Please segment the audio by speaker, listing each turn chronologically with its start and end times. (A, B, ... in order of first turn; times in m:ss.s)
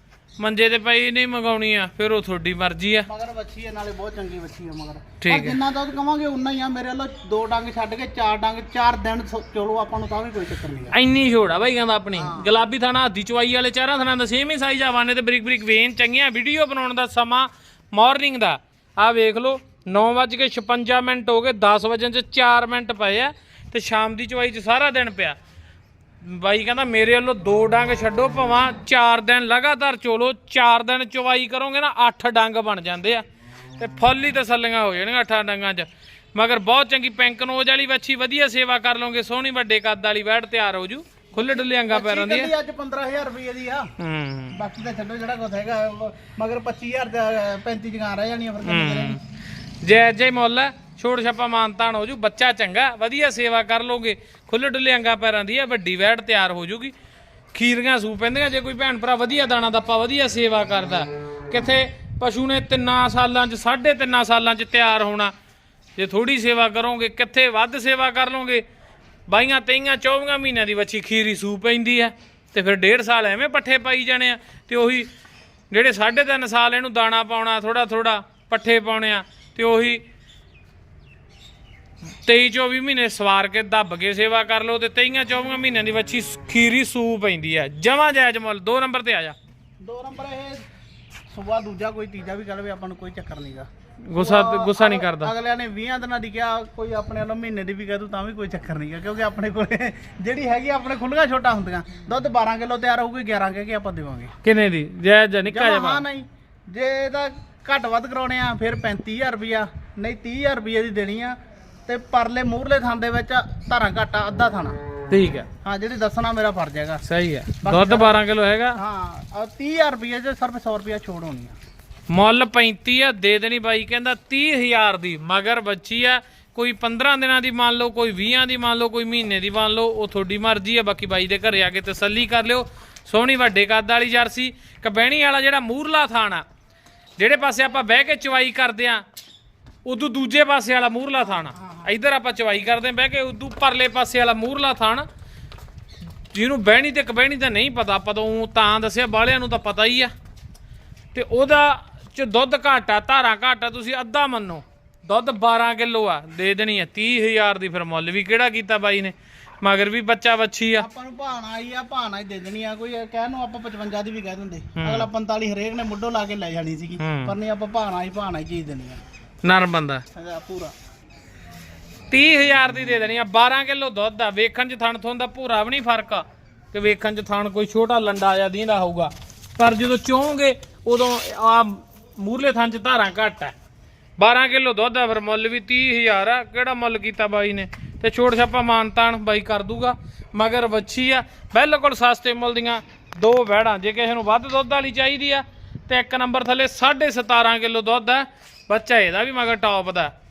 0:00.4-0:03.1 A
0:03.1-0:11.0 B
0:05.2-0:05.6 A
0:10.9-0:25.4 A
0:12.2-0:12.5 B
0:26.2-0:33.2 A
0:33.8-0:42.5 A
0:41.4-0:43.9 B
0:44.0-0:44.6 A
0:44.5-0:49.2 B
0:48.6-0:49.2 A
0:49.8-0:56.9 A
0:57.5-1:05.3 A
1:06.0-1:08.6 A
1:09.3-1:15.1 A
1:15.7-1:20.0 A
1:22.2-1:29.4 A
1:29.8-1:30.6 B
1:31.3-1:44.3 B
1:34.1-1:35.3 A
1:44.4-1:46.0 A
1:45.5-1:51.4 B
1:51.9-1:54.8 B
1:55.1-1:55.5 A
1:55.6-1:57.0 B
1:57.0-1:58.8 A
1:57.6-1:58.2 B
1:58.8-2:01.6 B
2:02.1-2:16.4 A
2:17.2-2:19.0 A
2:19.8-2:25.1 A
2:21.2-2:21.9 B
2:26.3-2:30.1 A
2:31.1-2:40.9 A
2:40.8-2:49.0 B
2:44.8-2:45.1 A
2:47.0-2:47.4 A
2:49.4-2:50.0 A
2:50.2-2:50.7 B
2:52.1-3:03.6 A
3:04.2-3:20.1 A